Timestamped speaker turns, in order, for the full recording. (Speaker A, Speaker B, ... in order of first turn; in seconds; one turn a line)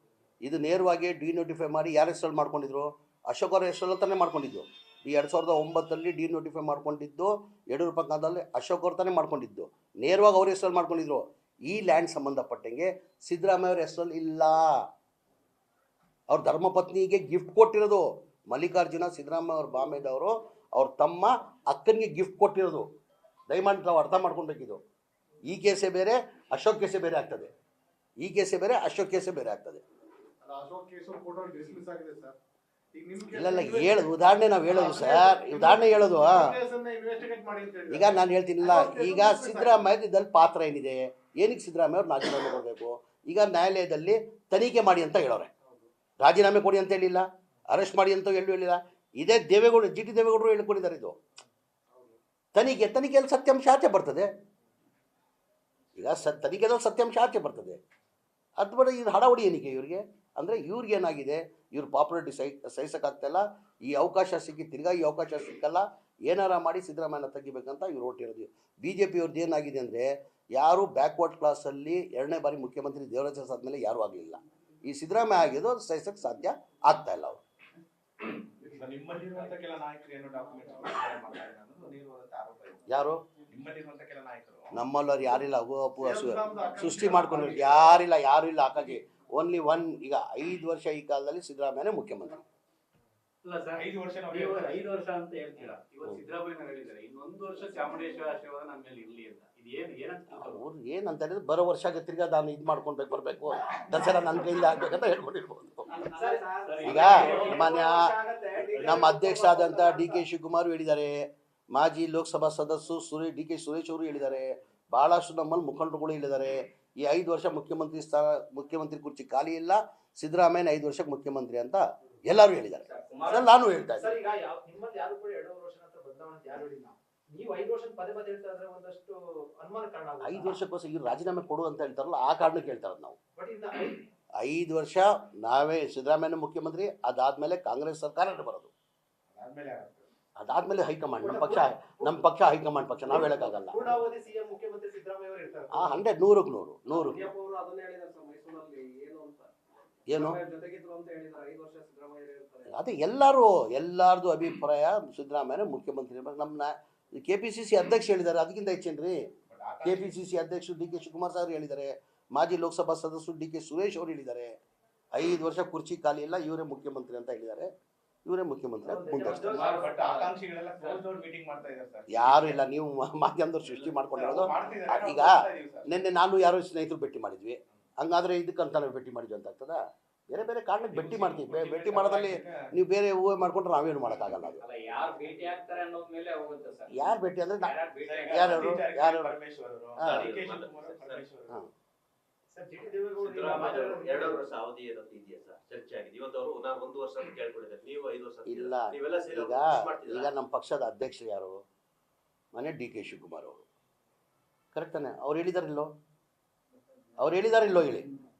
Speaker A: 0.4-14.9
Speaker A: 16.3-22.9
Speaker A: 23.5-24.8
Speaker A: 25.4-27.5
Speaker A: 28.2-29.8
Speaker B: 30.4-32.4
Speaker B: 32.9-34.1
Speaker A: 33.3-36.5
Speaker B: 34.7-39.9
Speaker A: 37.9-45.5
Speaker A: 46.2-51.2
Speaker C: 51.9-52.2
Speaker A: 52.5-54.3
Speaker A: 56.0-57.8
Speaker A: 58.6-77.4
Speaker D: 78.6-84.8
Speaker A: 82.9-83.2
Speaker A: 84.7-92.4
Speaker B: 86.0-88.0
Speaker C: 93.4-100.6
Speaker D: 93.8-95.0
Speaker A: 100.3-105.9
Speaker E: 105.9-107.6
Speaker B: 106.2-110.2
Speaker C: 106.7-107.0
Speaker A: 106.8-108.1
Speaker A: 108.8-124.2
Speaker E: 122.8-123.5
Speaker B: 124.0-130.6
Speaker A: 130.2-133.2
Speaker B: 133.4-134.1
Speaker A: 134.4-138.7
Speaker D: 139.3-140.1
Speaker A: 140.4-143.9
Speaker B: 141.2-142.2
Speaker B: 143.1-146.1
Speaker A: 145.7-147.3
Speaker C: 146.9-149.5
Speaker A: 150.1-150.4
Speaker C: 150.1-152.8
Speaker A: 152.7-159.2
Speaker D: 159.5-160.2
Speaker A: 159.8-164.6
Speaker A: 165.1-167.7
Speaker A: 168.3-169.6
Speaker B: 168.8-170.3
Speaker E: 169.3-171.0
Speaker D: 169.3-172.6
Speaker A: 172.1-184.6
Speaker D: 173.8-175.9
Speaker D: 180.9-182.8
Speaker E: 184.6-187.1
Speaker A: 186.9-187.8
Speaker E: 187.6-188.7
Speaker D: 188.0-191.6
Speaker A: 188.3-189.4
Speaker A: 190.0-190.3
Speaker F: 190.0-191.2
Speaker B: 192.5-194.4
Speaker F: 193.2-200.3
Speaker A: 198.4-201.6
Speaker A: 202.5-203.6
Speaker A: 204.7-205.9
Speaker A: 207.2-208.1